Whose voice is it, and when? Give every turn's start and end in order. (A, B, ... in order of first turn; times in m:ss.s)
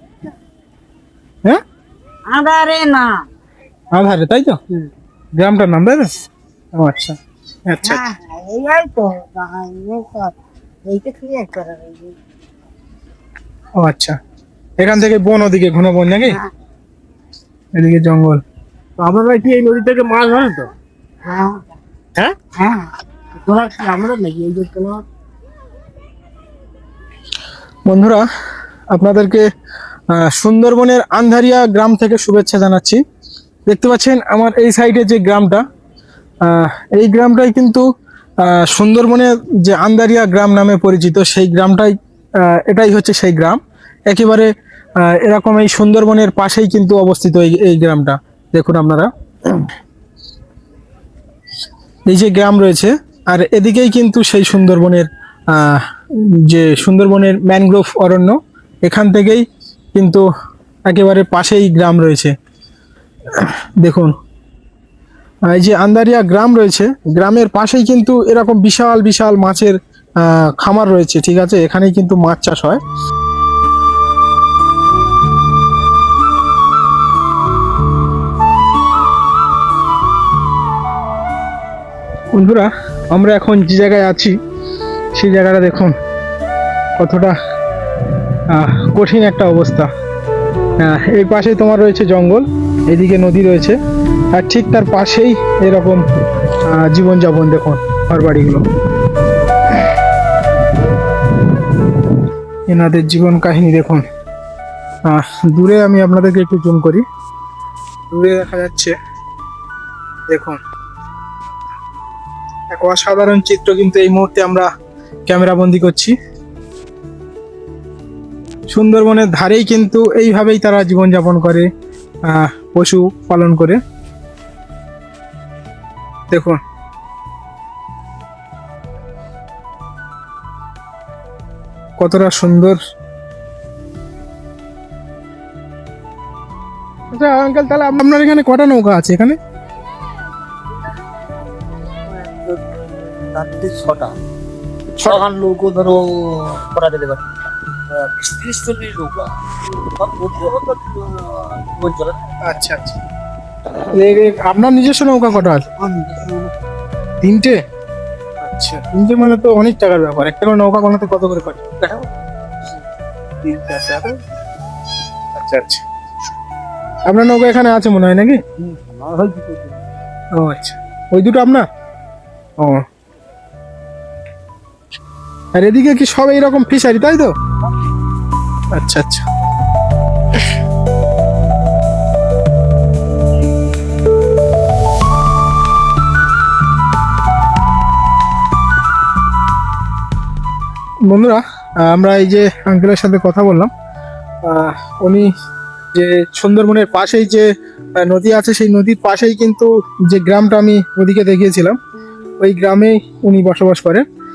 0:02.3-0:03.1 A
0:02.3-0:03.2 B
0:03.9-0:04.6 C
0:05.4-0:06.1 C
0:06.8-0:07.2 C
0:07.7-0:08.0 C
0:07.9-0:10.3 B
0:10.9-0:12.1 B
0:13.8-0:14.2 C
0:14.8-0:16.4 C
0:17.7-0:18.4 C
0:19.0-0:20.7 D
0:21.2-0:21.6 B
0:22.1-0:22.4 D
0:22.5-0:22.9 B
0:23.4-0:25.0 D
0:27.9-0:28.2 C
0:28.9-0:29.4 C
0:30.1-0:33.0 C
0:33.7-0:35.6 C
0:36.4-0:37.8 C
0:38.4-0:41.9 C
0:42.4-0:44.5 C
0:45.0-0:49.6 C
0:52.1-0:55.8 C
0:56.4-1:00.2 C
1:00.9-1:02.3 C
1:03.3-1:04.1 C
1:05.5-1:12.8 C
1:22.3-1:24.3 C
1:25.1-1:25.9 C
1:27.0-1:27.3 C
1:28.5-1:29.9 C
1:30.8-1:33.8 C
1:34.3-1:36.0 C
1:36.7-1:38.6 C
1:42.7-1:44.0 C
1:45.1-1:47.0 C
1:48.1-1:48.9 C
1:50.3-1:50.6 C
1:52.7-1:54.7 C
1:55.3-1:56.1 C
1:58.7-2:01.7 C
2:02.3-2:03.8 C
2:06.3-2:06.6 C
2:12.0-2:12.8 C
2:17.1-2:19.4 C
2:22.1-2:24.2 A
2:25.0-2:27.3 A
2:27.9-2:32.3 A
2:32.4-2:33.0 C
2:33.9-2:35.7 C
2:35.8-2:36.5 A
2:37.2-2:37.6 C
2:38.4-2:42.1 C
2:43.4-2:44.2 C
2:45.3-2:45.8 C
2:47.1-2:48.4 C
2:48.7-2:49.8 A
2:50.4-2:51.6 C
2:55.6-2:57.3 C
2:58.7-2:59.2 C
3:11.1-3:13.7 C
3:14.4-3:15.3 C
3:15.9-3:17.5 C
3:18.0-3:21.8 C
3:22.4-3:24.0 C